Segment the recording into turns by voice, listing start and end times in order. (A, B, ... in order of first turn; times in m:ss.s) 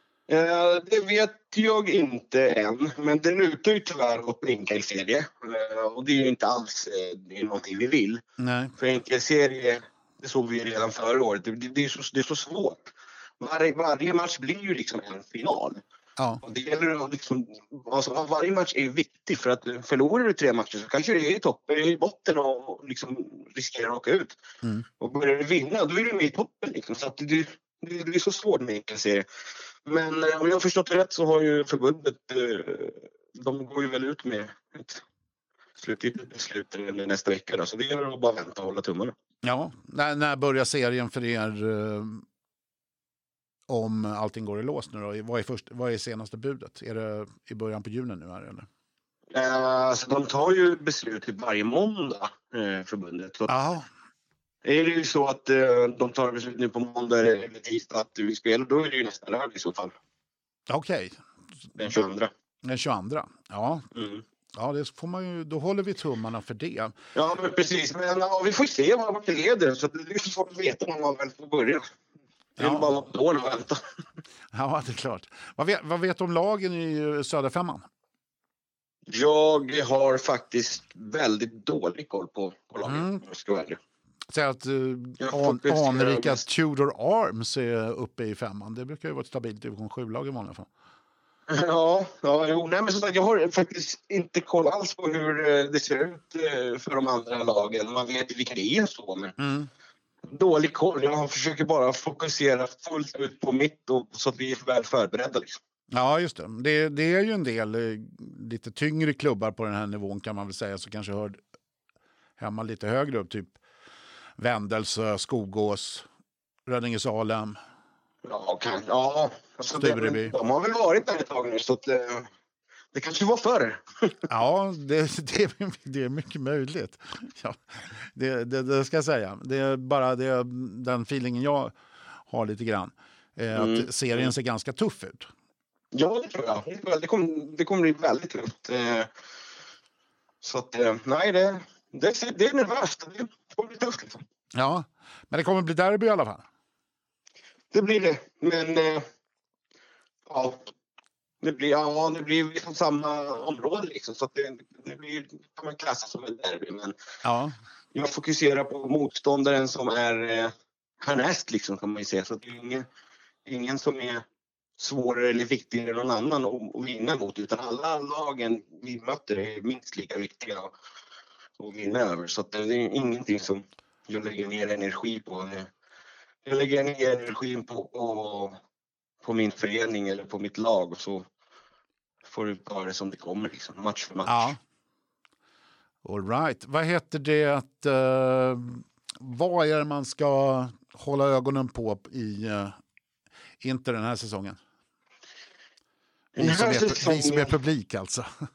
0:00.3-0:08.2 A
0:08.4-0:08.7 B
0:08.8-0:15.8 A
0:16.4-0:24.4 A
0:25.0-0:29.2 A
0:29.9-0:35.0 A
0:35.8-0:39.1 A
0:39.4-0:42.2 B
0:43.7-0:48.7 B
0:49.3-0:53.5 A
0:53.5-0:53.9 B
0:54.6-0:59.9 A
1:00.7-1:01.2 B
1:01.8-1:02.3 A
1:02.6-1:03.8 B
1:04.0-1:04.2 A
1:04.5-1:06.9 B
1:07.2-1:11.8 A
1:12.6-1:12.9 B
1:12.6-1:13.8 A
1:14.5-1:17.9 B
1:19.1-1:23.8 A
1:22.8-1:23.2 B
1:24.3-1:30.7 B
1:25.2-1:26.4 A
1:31.5-1:39.4 A
1:39.4-1:39.7 B
1:40.3-1:45.6 A
1:45.9-1:51.4 B
1:52.4-1:53.6 B
1:54.4-1:56.0 B
1:56.7-1:57.6 B
1:58.2-2:02.3 A
1:59.8-2:00.4 B
2:02.9-2:04.2 A
2:04.3-2:11.7 B
2:12.3-2:15.3 B
2:13.5-2:14.3 A
2:15.9-2:19.1 A
2:20.4-2:24.2 A
2:24.5-2:26.5 B
2:27.7-2:29.0 A
2:30.3-2:30.7 A
2:31.4-2:36.9 A
2:37.2-2:37.5 B
2:37.9-2:42.8 A
2:43.5-2:44.2 A
2:44.8-2:50.7 A
2:51.6-2:55.7 A
2:56.4-2:58.6 A
2:59.2-3:01.2 A
3:02.2-3:04.5 A
3:04.2-3:04.6 B
3:06.0-3:12.8 B
3:13.6-3:14.6 B
3:16.4-3:18.3 B
3:16.4-3:17.5 A